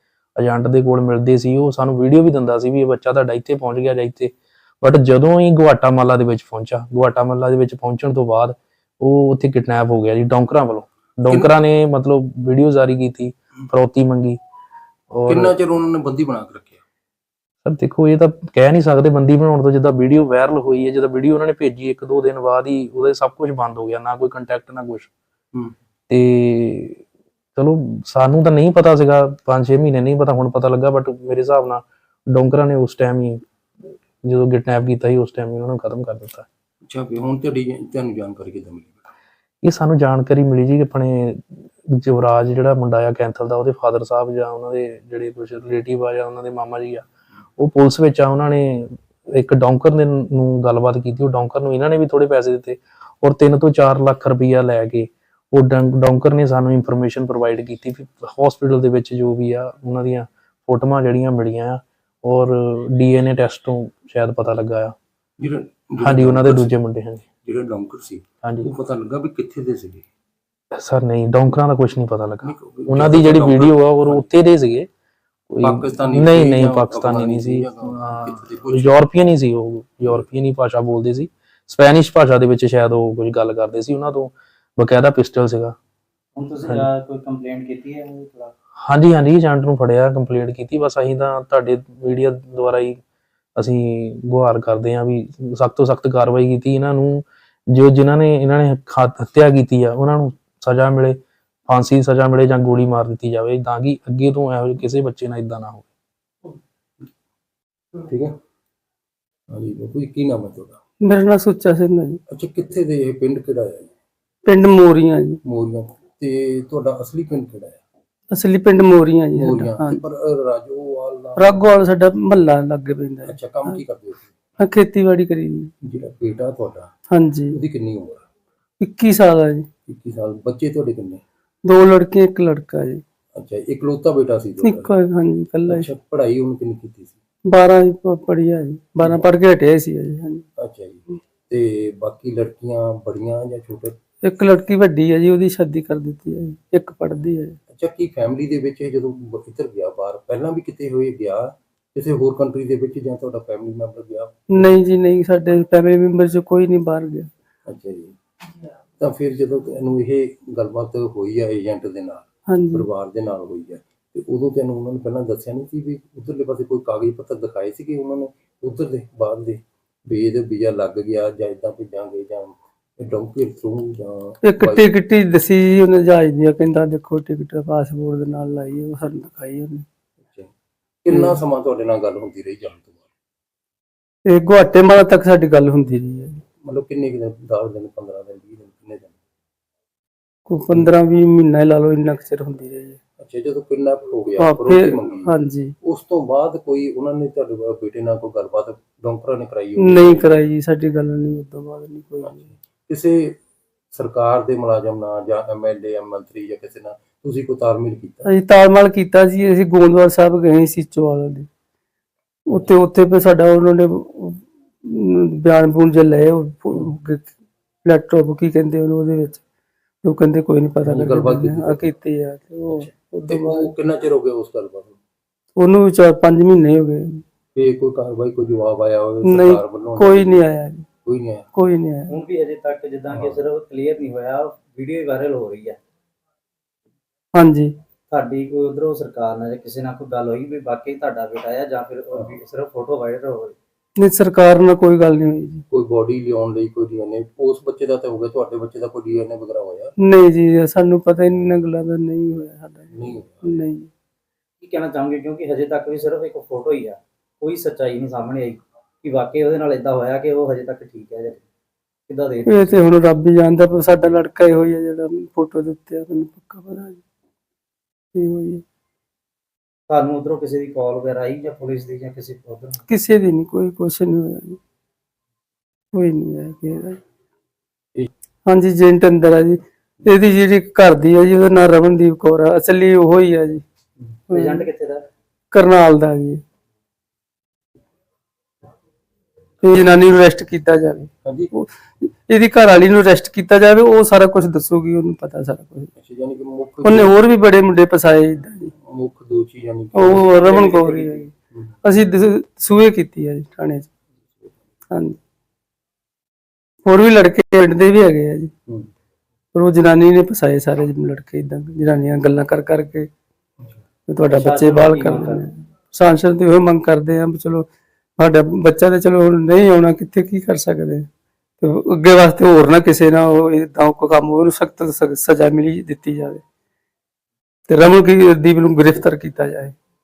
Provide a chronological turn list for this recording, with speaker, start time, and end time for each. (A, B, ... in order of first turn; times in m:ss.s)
0:00.4-0:14.4 A
0:15.1-0:15.5 A
0:15.3-0:16.8 B
0:17.6-0:25.1 A
0:26.1-0:27.0 A
0:27.6-0:33.4 A
0:34.2-0:36.5 A
0:36.9-0:39.1 B
0:39.6-1:04.9 A
1:05.4-1:06.7 B
1:06.0-1:07.2 A
1:07.4-1:10.1 B
1:10.7-1:14.9 A
1:12.4-1:14.3 B
1:15.5-1:25.7 A
1:15.6-1:19.0 B
1:26.4-1:28.5 C
1:28.8-1:33.0 A
1:33.6-1:45.9 A
1:48.0-1:48.3 B
1:49.5-1:50.8 B
1:51.0-1:52.2 D
1:52.3-1:53.9 B
1:54.4-1:55.4 D
1:55.4-1:57.8 B
1:58.3-2:00.0 D
1:59.4-2:01.8 B
2:01.4-2:03.8 D
2:03.2-2:04.4 B
2:04.6-2:05.7 D
2:05.8-2:06.9 B
2:07.1-2:07.6 D
2:07.5-2:08.2 B
2:08.8-2:09.7 D
2:09.9-2:11.2 B
2:11.6-2:13.0 D
2:13.4-2:14.9 B
2:14.6-2:15.9 D
2:15.7-2:17.2 B
2:17.5-2:20.4 D
2:20.6-2:24.0 B
2:24.2-2:27.6 D
2:27.7-2:34.8 B
2:34.5-2:37.3 D
2:37.7-2:38.2 B
2:39.0-2:54.8 B
2:42.5-2:42.8 D
2:54.4-2:59.8 D
3:00.2-3:00.5 B
3:01.0-3:03.0 B
3:04.2-3:06.4 D
3:06.6-3:09.1 B
3:10.5-3:13.0 D
3:13.2-3:20.2 B
3:14.4-3:15.7 D
3:19.8-3:22.5 D
3:22.9-3:23.4 B
3:23.9-3:28.3 B
3:28.2-3:31.5 D
3:32.4-3:37.3 D
3:37.8-3:39.4 D
3:40.0-3:43.7 D
3:40.8-3:41.9 B
3:42.7-3:45.0 B
3:45.6-3:47.2 D
3:47.5-3:50.4 B
3:49.2-3:50.9 D
3:51.0-3:51.5 B
3:51.5-3:52.1 D
3:52.1-3:55.8 C
3:57.3-3:57.7 D
3:58.1-4:03.5 C
4:04.0-4:05.6 D
4:05.7-4:09.9 B
4:10.0-4:13.9 D
4:12.9-4:13.5 B
4:14.6-4:21.4 C
4:22.1-4:22.8 C
4:22.4-4:27.0 D
4:28.1-4:28.6 D
4:29.9-4:32.8 C
4:32.9-4:34.6 D
4:35.9-4:37.0 D
4:38.4-4:43.6 D
4:44.3-4:44.7 D
4:44.3-4:45.0 C
4:45.5-4:46.4 D
4:49.6-4:55.9 D
4:51.2-4:51.5 B
4:56.0-4:57.1 B
4:56.8-4:58.7 D
4:58.8-5:01.7 B
4:59.9-5:01.3 D
5:01.8-5:03.9 D
5:04.9-5:05.2 D
5:06.8-5:08.5 D
5:09.5-5:13.1 D
5:14.1-5:17.7 D
5:14.3-5:15.4 C
5:18.2-5:21.1 D
5:21.6-5:26.4 D
5:27.7-5:29.8 D